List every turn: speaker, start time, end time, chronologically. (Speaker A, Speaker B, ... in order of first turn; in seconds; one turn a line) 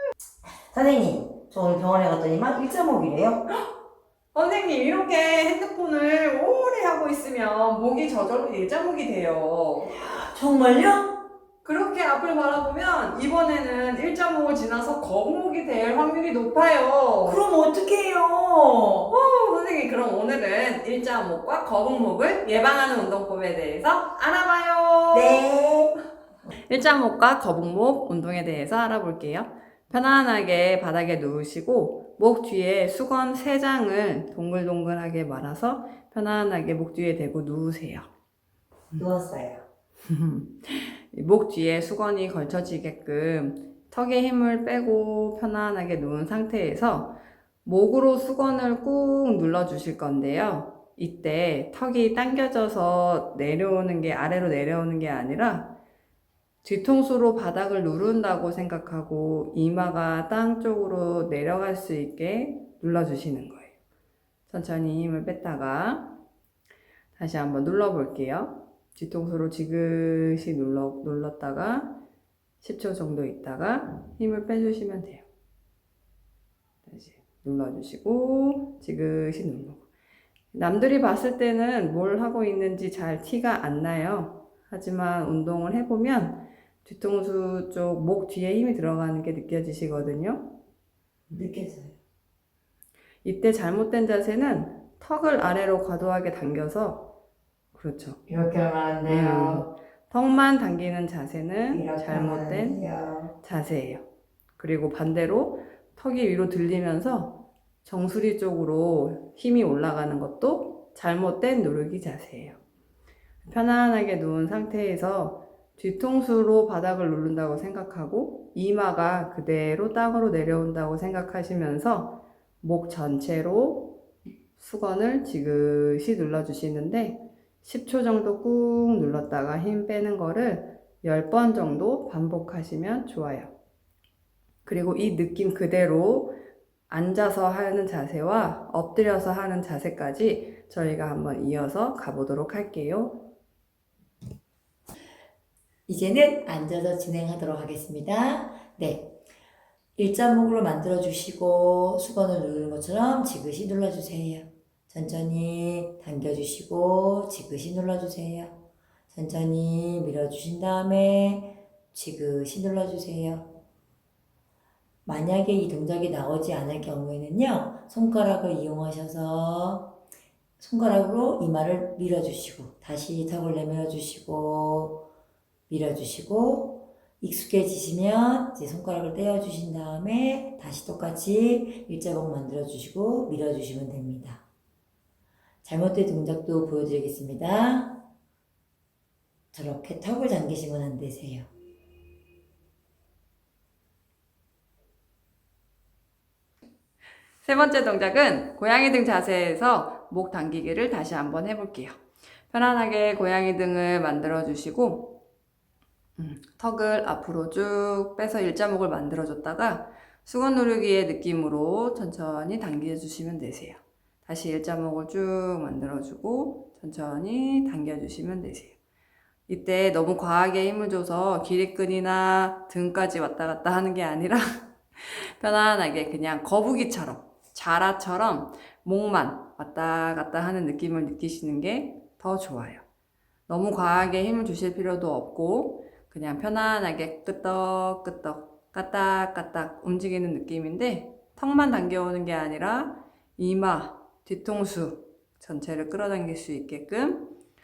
Speaker A: 0.7-3.4
Speaker B: 4.3-9.9
Speaker A: 9.9-11.2
Speaker B: 11.6-17.4
Speaker A: 17.2-19.1
Speaker B: 19.1-25.4
Speaker A: 25.1-25.9
Speaker B: 26.6-38.0
Speaker A: 39.0-39.6
Speaker B: 40.0-55.8
Speaker B: 56.6-63.7
Speaker B: 64.5-66.2
Speaker B: 67.2-72.0
Speaker B: 72.6-75.2
Speaker B: 76.9-79.8
Speaker B: 80.5-90.5
Speaker A: 91.3-92.0
Speaker B: 93.2-97.1
Speaker B: 97.7-98.2
Speaker A: 98.3-99.7
Speaker B: 99.1-102.8
Speaker A: 101.7-103.3
Speaker B: 103.4-104.0
Speaker B: 104.6-112.6
Speaker B: 113.4-124.0
Speaker B: 124.6-133.5
Speaker B: 134.7-136.4
Speaker B: 136.9-143.2
Speaker A: 145.9-149.2
Speaker A: 150.0-163.5
Speaker A: 165.1-170.0
Speaker A: 170.6-175.1
Speaker A: 175.7-184.4
Speaker A: 185.6-188.0
Speaker A: 189.5-191.5
Speaker B: 197.4-202.0
Speaker B: 202.5-205.2
Speaker B: 206.2-218.8
Speaker B: 219.5-232.8
Speaker B: 233.5-247.3